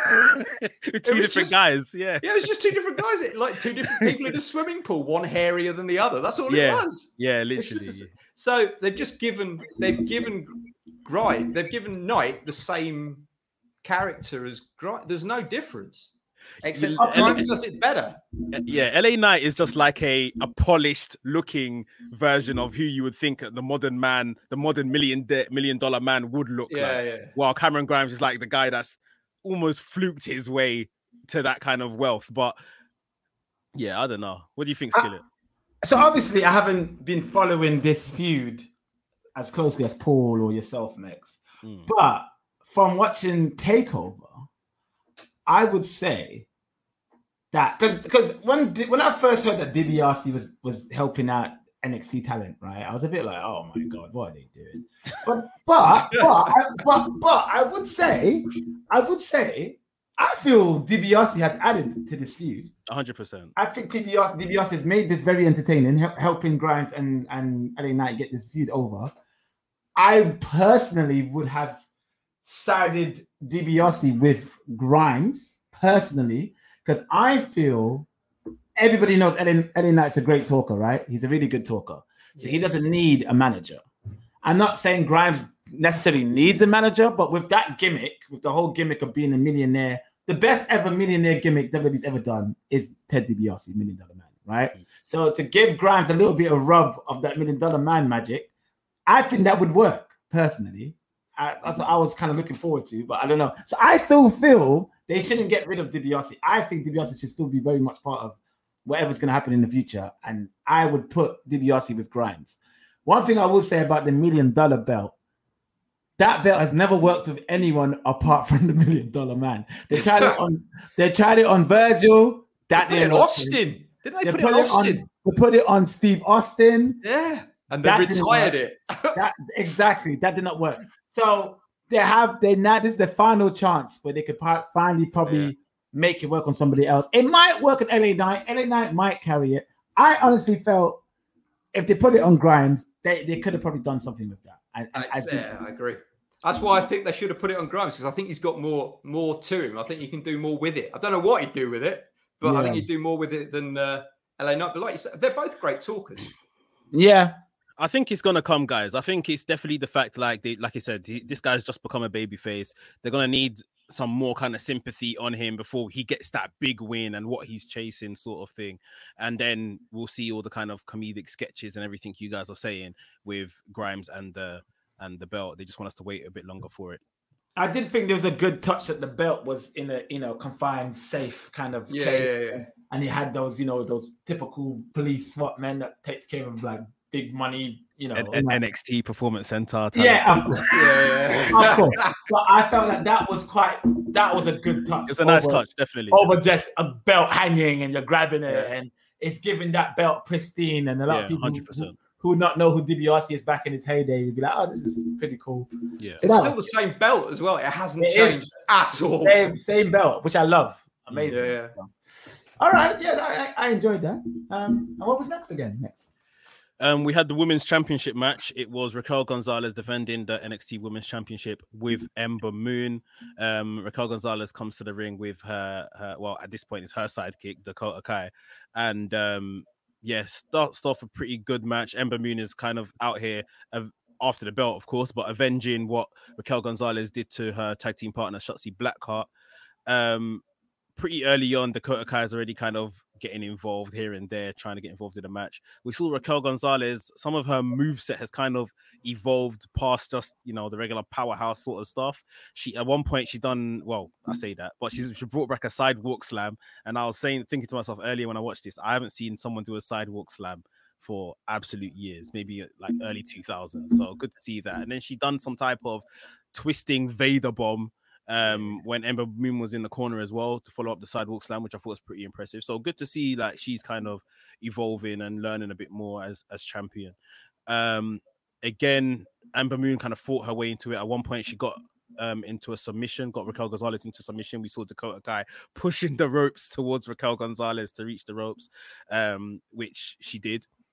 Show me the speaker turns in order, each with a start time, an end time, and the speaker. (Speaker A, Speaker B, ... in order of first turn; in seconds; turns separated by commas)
Speaker A: 0.3-2.5, Speaker B: 1.1-1.6, Speaker B: 2.2-13.3, Speaker A: 6.5-8.1, Speaker B: 13.8-18.2, Speaker A: 16.7-17.5, Speaker C: 17.0-17.4, Speaker A: 18.5-32.6, Speaker B: 26.7-27.3, Speaker A: 33.8-35.2, Speaker C: 35.8-38.7, Speaker C: 39.4-44.5, Speaker A: 41.6-41.9, Speaker C: 45.5-46.5, Speaker C: 47.5-62.7, Speaker A: 62.9-63.5, Speaker C: 63.6-69.1, Speaker C: 70.0-71.8, Speaker C: 72.4-78.1, Speaker C: 78.8-83.8, Speaker B: 82.4-82.7, Speaker C: 84.4-98.5, Speaker C: 99.1-115.1, Speaker C: 116.2-123.6, Speaker B: 119.9-120.4, Speaker B: 122.8-125.0, Speaker C: 124.2-127.0, Speaker B: 127.0-129.2, Speaker C: 127.8-128.6, Speaker C: 129.1-141.0, Speaker C: 141.7-145.5, Speaker B: 144.9-156.3, Speaker C: 152.4-152.9, Speaker C: 156.9-157.4, Speaker A: 157.8-177.0, Speaker C: 177.6-188.6, Speaker B: 181.9-182.7, Speaker A: 188.1-190.6, Speaker C: 189.9-205.7, Speaker B: 190.7-192.2, Speaker A: 195.1-196.3, Speaker A: 201.1-202.0, Speaker C: 206.2-206.6, Speaker B: 206.2-209.6, Speaker C: 208.0-208.5, Speaker C: 209.2-211.9, Speaker A: 211.1-211.4, Speaker B: 211.3-211.7, Speaker C: 212.6-216.1, Speaker A: 216.8-239.3, Speaker A: 239.9-240.4, Speaker A: 241.0-277.2, Speaker A: 277.7-290.7